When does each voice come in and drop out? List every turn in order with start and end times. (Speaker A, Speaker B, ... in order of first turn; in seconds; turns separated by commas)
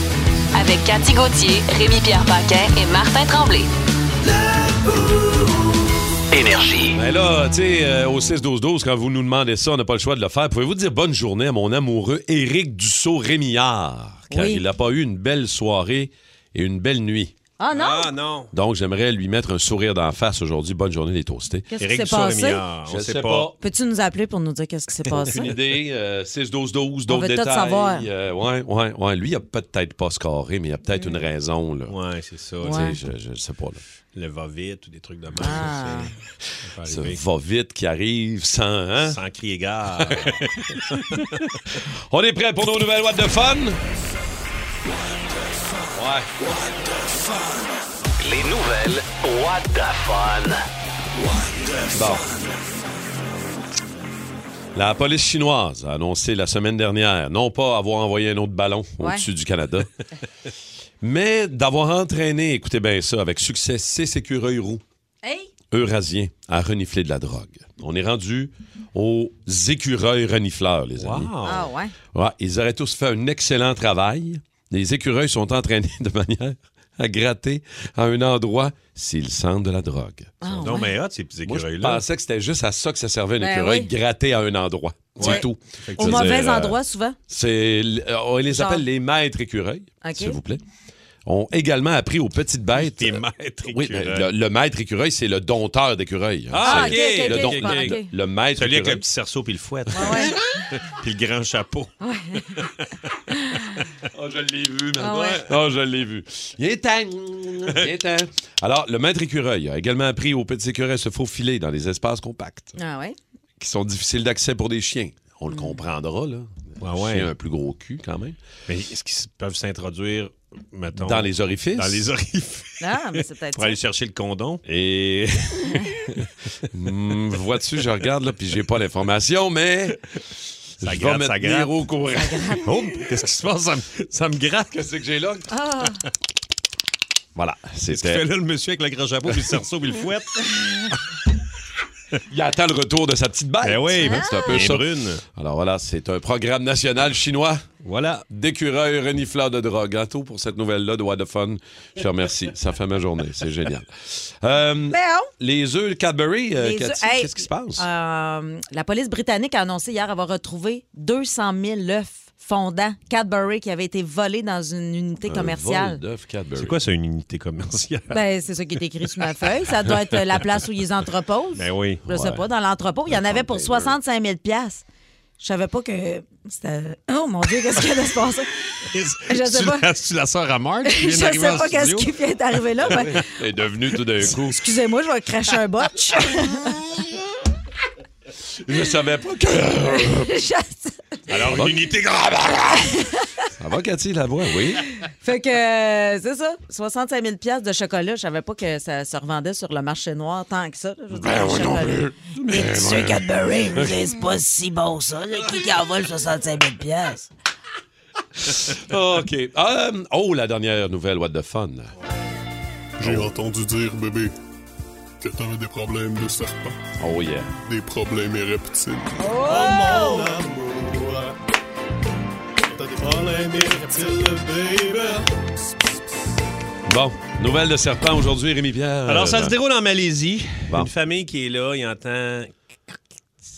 Speaker A: 0.5-3.7, Speaker B: 6.3-7.0, Speaker C: 6.9-17.3, Speaker D: 14.3-14.6, Speaker D: 17.6-18.1, Speaker E: 17.7-18.5, Speaker C: 18.5-21.7, Speaker D: 21.7-22.6, Speaker E: 21.8-23.5, Speaker C: 22.9-23.6, Speaker D: 23.6-25.5, Speaker C: 25.1-32.0, Speaker D: 27.1-28.1, Speaker E: 31.9-32.9, Speaker C: 32.6-33.8, Speaker D: 32.6-33.0, Speaker E: 34.1-36.0, Speaker D: 35.4-36.1, Speaker C: 35.5-36.1, Speaker E: 36.6-37.2, Speaker C: 36.9-39.2, Speaker E: 39.0-41.5, Speaker C: 40.0-41.0, Speaker C: 41.8-43.8, Speaker C: 46.0-46.4, Speaker B: 48.2-50.7, Speaker C: 51.9-52.3, Speaker C: 54.7-59.9, Speaker D: 59.0-59.2, Speaker C: 61.0-64.8, Speaker D: 65.2-65.5, Speaker C: 65.7-71.3, Speaker E: 71.0-71.7, Speaker D: 71.5-71.9, Speaker C: 72.1-80.5, Speaker D: 80.4-80.9, Speaker E: 80.5-82.0, Speaker C: 81.5-86.8, Speaker D: 83.4-83.9, Speaker E: 85.2-86.4, Speaker D: 86.0-87.2, Speaker C: 87.3-90.6, Speaker D: 88.5-88.8, Speaker D: 90.0-90.4, Speaker C: 91.2-99.0, Speaker E: 92.8-94.3, Speaker E: 96.5-98.0, Speaker D: 96.6-98.1, Speaker E: 98.6-101.9, Speaker D: 99.9-100.3, Speaker D: 102.0-102.6, Speaker D: 103.3-103.7, Speaker C: 104.1-112.8, Speaker D: 105.0-105.5, Speaker D: 112.8-113.2, Speaker C: 113.6-118.4, Speaker D: 115.5-115.8, Speaker E: 116.8-117.3, Speaker E: 118.7-124.6, Speaker C: 121.0-122.1, Speaker D: 122.8-123.8, Speaker C: 124.7-130.0, Speaker E: 130.8-131.8, Speaker C: 130.8-132.6, Speaker D: 132.2-132.8, Speaker E: 132.6-134.7, Speaker C: 134.5-135.5, Speaker D: 135.5-136.0, Speaker C: 137.3-138.2, Speaker E: 137.9-141.0, Speaker D: 140.6-140.9, Speaker C: 142.3-147.7, Speaker E: 143.6-145.2, Speaker D: 144.0-144.6, Speaker E: 147.8-148.2, Speaker C: 148.3-157.8, Speaker D: 154.9-155.3, Speaker D: 156.6-166.0, Speaker C: 165.3-166.8, Speaker E: 166.6-168.2, Speaker D: 168.1-174.8, Speaker E: 171.6-172.0, Speaker C: 172.1-172.4, Speaker C: 173.1-174.0, Speaker D: 175.4-178.5, Speaker E: 178.8-182.1, Speaker D: 179.3-179.9, Speaker D: 180.8-183.3, Speaker E: 182.8-183.1, Speaker C: 182.9-184.6, Speaker D: 184.4-186.8, Speaker C: 188.6-190.3, Speaker D: 190.1-191.2, Speaker E: 191.3-192.7, Speaker C: 191.5-192.6, Speaker D: 192.8-193.3, Speaker C: 193.6-194.8, Speaker D: 195.1-207.3, Speaker C: 201.1-204.0, Speaker C: 208.6-211.9, Speaker F: 213.0-214.3, Speaker C: 213.0-213.3, Speaker F: 215.2-216.8, Speaker C: 217.0-217.5, Speaker F: 217.7-221.3, Speaker D: 219.2-220.3, Speaker F: 222.7-225.2, Speaker E: 223.1-225.0, Speaker C: 226.9-229.6, Speaker E: 229.1-232.5